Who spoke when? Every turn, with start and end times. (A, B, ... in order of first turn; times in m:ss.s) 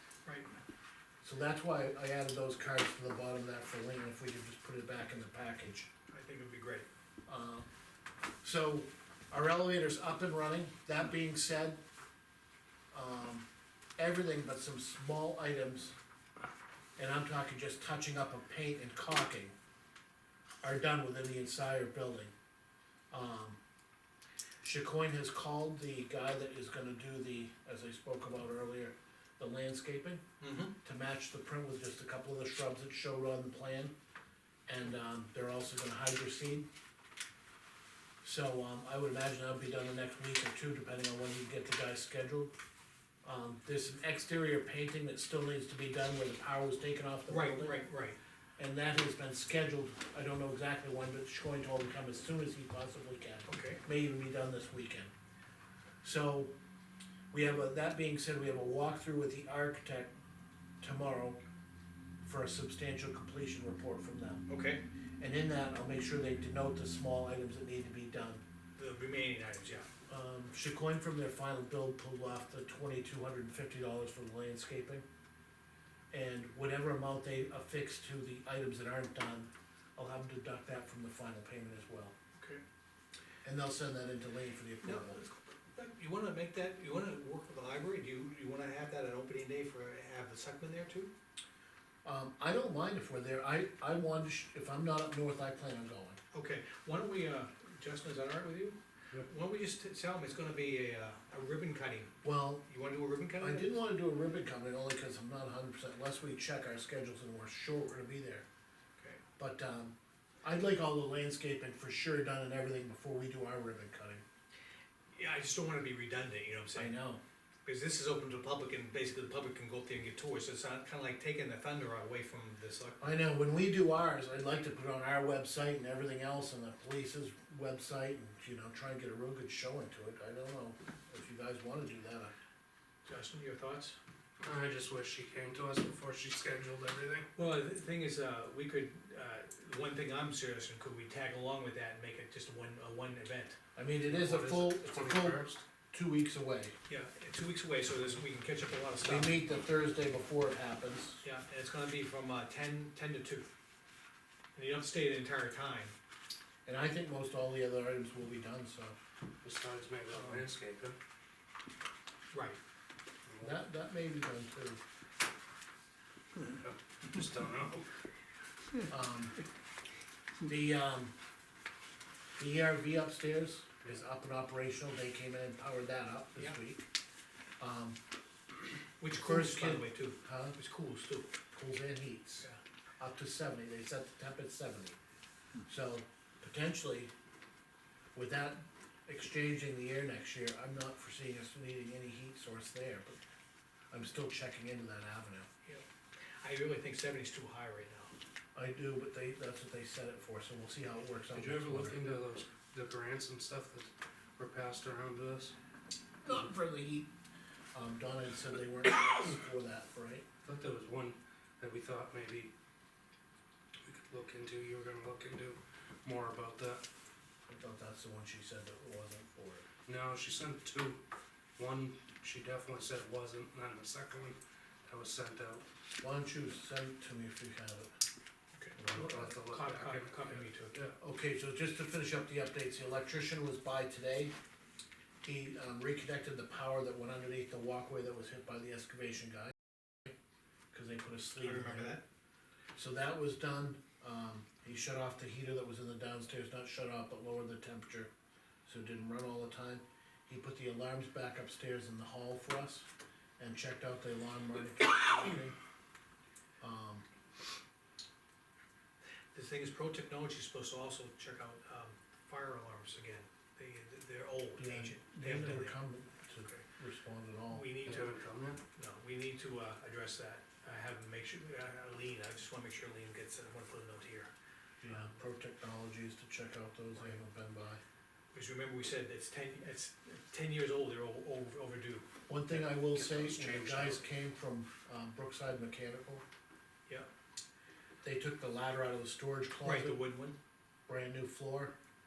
0:00.2-0:00.5 A
0:01.2-0:05.9 B
0:06.1-0:06.9 A
0:07.3-0:07.7 B
0:08.4-0:11.8 B
0:12.9-0:13.5 B
0:14.0-0:16.0 B
0:17.0-0:19.5 B
0:20.6-0:22.3 B
0:23.1-0:23.6 B
0:24.6-0:30.2 B
0:30.4-0:30.7 A
0:30.8-0:33.9 B
0:34.7-0:36.7 B
0:38.2-0:42.5 B
0:43.2-0:47.8 B
0:47.3-0:48.2 A
0:48.6-0:55.1 B
0:53.5-0:53.8 A
0:56.0-0:56.5 B
0:57.3-1:00.1 B
1:00.8-1:01.4 B
1:02.2-1:04.4 B
1:04.5-1:04.8 A
1:05.2-1:08.4 B
1:08.8-1:09.9 A
1:10.1-1:15.0 B
1:16.1-1:22.2 B
1:23.4-1:25.2 B
1:24.8-1:31.1 A
1:32.0-1:36.2 B
1:36.3-1:42.1 A
1:42.2-1:42.6 B
1:42.7-1:43.7 A
1:43.4-1:48.4 B
1:49.4-1:54.2 B
1:55.1-1:57.0 A
1:56.8-1:57.2 B
1:57.7-2:03.0 A
2:03.0-2:12.3 B
2:13.1-2:14.0 A
2:14.4-2:17.3 C
2:17.4-2:23.6 A
2:23.8-2:26.8 B
2:24.0-2:25.6 C
2:26.9-2:29.3 A
2:29.0-2:31.2 B
2:31.2-2:33.5 A
2:34.6-2:35.9 A
2:36.7-2:39.0 B
2:39.4-2:41.0 C
2:40.1-2:40.4 A
2:42.3-2:42.6 A
2:43.3-2:43.6 C
2:43.4-2:44.8 B
2:46.5-2:47.9 C
2:48.9-2:49.4 B
2:50.4-2:51.1 B
2:52.4-2:56.9 B
2:57.6-2:58.0 B
2:59.0-3:01.3 A
2:59.1-3:00.6 B
3:01.5-3:02.5 B
3:03.0-3:05.0 B
3:05.7-3:07.1 B
3:08.2-3:13.2 B
3:13.9-3:15.5 B
3:16.4-3:18.1 A
3:18.6-3:22.0 B
3:21.3-3:25.6 C
3:26.2-3:27.1 B
3:27.7-3:30.3 B
3:30.4-3:32.5 C
3:33.8-3:36.8 C
3:37.5-3:39.6 B
3:39.9-3:41.0 C
3:41.6-3:45.6 C
3:46.0-3:47.9 B
3:48.8-3:49.4 B
3:48.9-3:51.0 C
3:49.4-3:50.8 A
3:51.0-3:54.3 B
3:55.2-4:00.1 B
4:00.7-4:02.0 B
4:01.4-4:02.0 A
4:02.8-4:08.1 B
4:08.7-4:12.9 B
4:13.4-4:15.6 B
4:16.6-4:17.0 B
4:19.3-4:25.8 A
4:24.6-4:27.7 B
4:27.5-4:28.2 A
4:27.8-4:28.6 C
4:28.8-4:34.3 A
4:34.8-4:37.8 B
4:38.3-4:42.1 A
4:42.3-4:46.2 B
4:42.5-4:44.0 C
4:48.0-4:50.0 B
4:49.6-4:50.4 A
4:50.9-4:51.7 B